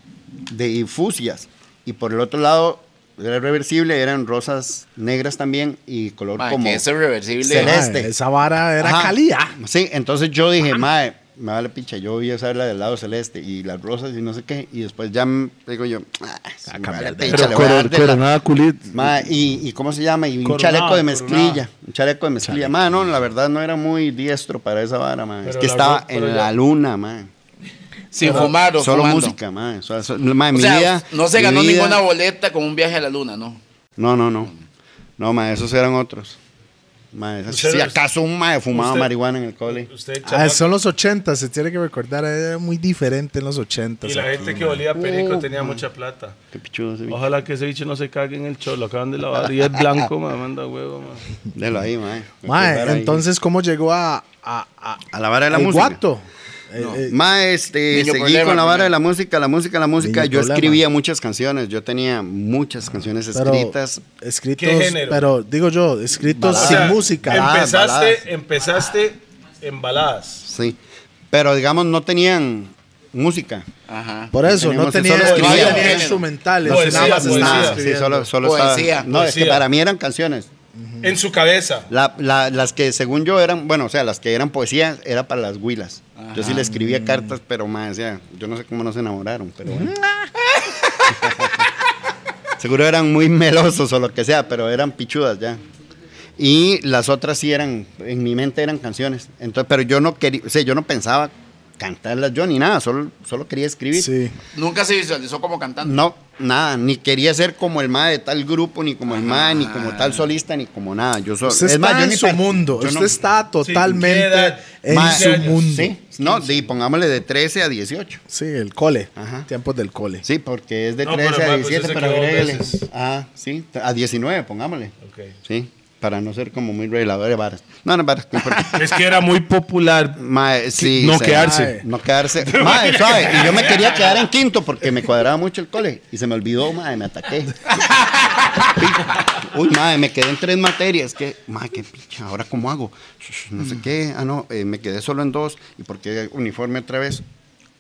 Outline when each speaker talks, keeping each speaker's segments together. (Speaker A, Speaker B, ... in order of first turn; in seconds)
Speaker A: 0.5-6.8, 7.4-8.1, 8.8-18.3, 18.9-27.3, 28.2-32.0, 34.0-34.5, 35.2-36.4, 37.1-39.9, 44.9-45.8, 46.5-47.2, 51.5-53.2, 55.1-56.0, 57.1-64.0, 66.3-68.2, 70.4-70.8, 71.3-73.7, 74.4-76.1, 76.6-80.5, 81.9-90.3, 91.1-91.7, 92.6-95.6, 96.4-104.1, 105.8-113.2, 114.9-118.2, 119.2-119.5, 120.2-124.9, 125.5-129.0, 130.2-137.7, 138.6-147.2
Speaker B: 6.4-7.7, 28.1-29.4, 30.5-33.6, 57.9-58.9, 73.9-74.3, 75.3-76.2, 78.4-79.1, 86.2-86.6, 104.5-106.0, 109.1-110.2
Speaker C: 7.5-9.6, 16.7-17.6, 40.2-44.9, 52.5-57.2, 60.0-60.8, 63.3-67.4, 74.3-78.3, 80.8-81.1, 86.6-87.3, 104.0-104.3, 111.5-115.9, 118.3-120.2, 131.4-131.8
Speaker D: 17.3-19.0, 20.4-21.6, 25.4-26.5, 28.2-28.6, 37.5-38.0, 38.7-39.1, 39.8-40.7, 44.0-46.4, 47.1-51.2, 64.6-65.2, 66.5-70.4, 75.2-76.0, 76.7-77.8, 79.1-79.6, 81.0-81.9, 113.6-115.6, 121.0-122.8, 125.0-125.3, 128.7-130.2, 130.8-131.8, 132.4-134.1